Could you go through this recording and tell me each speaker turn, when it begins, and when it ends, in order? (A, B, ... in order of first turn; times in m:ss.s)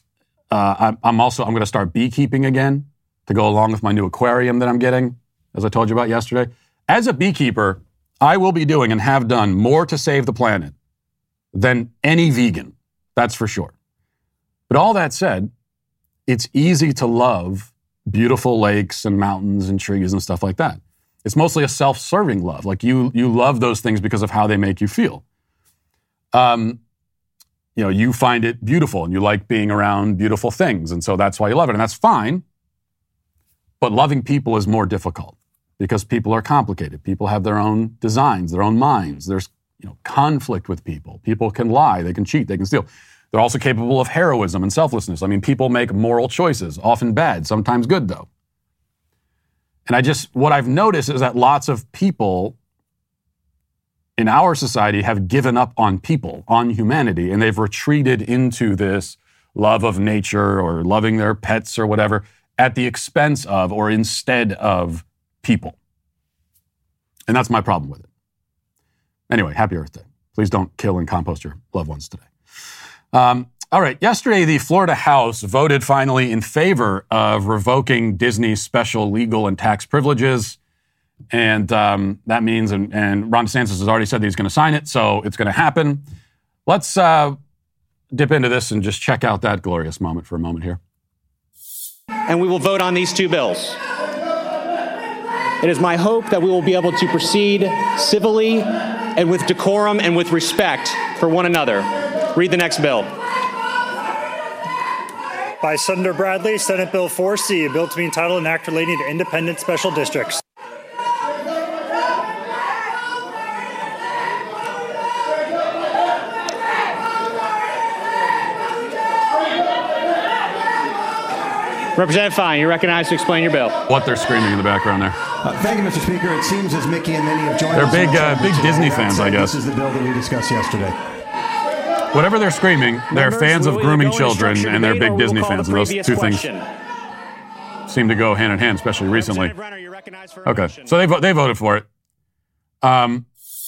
0:00.5-0:10.7 A
0:11.5-0:13.7 A
0:14.7-0:15.5 A
0:16.3-0:25.2 A
0:26.3-0:26.8 A
0:27.8-0:32.4 A
0:33.8-0:48.3 A
0:49.9-0:52.6 A
0:54.2-1:05.8 A
1:07.3-1:08.1 A
1:09.3-1:12.3 A
1:13.1-1:20.6 A
1:21.3-1:26.0 A
1:26.7-1:27.4 A
1:28.1-1:30.8 A
1:32.3-1:33.8 B
1:35.6-1:43.1 B
1:45.6-1:50.4 C
2:02.0-2:03.8 B
2:03.9-2:05.2 A
2:05.4-2:11.0 D
2:07.7-2:09.5 A
2:12.1-2:16.5 A
2:13.1-2:16.6 B
2:17.9-2:19.5 A
2:19.1-2:21.0 B
2:20.4-2:21.8 A
2:22.8-2:23.2 A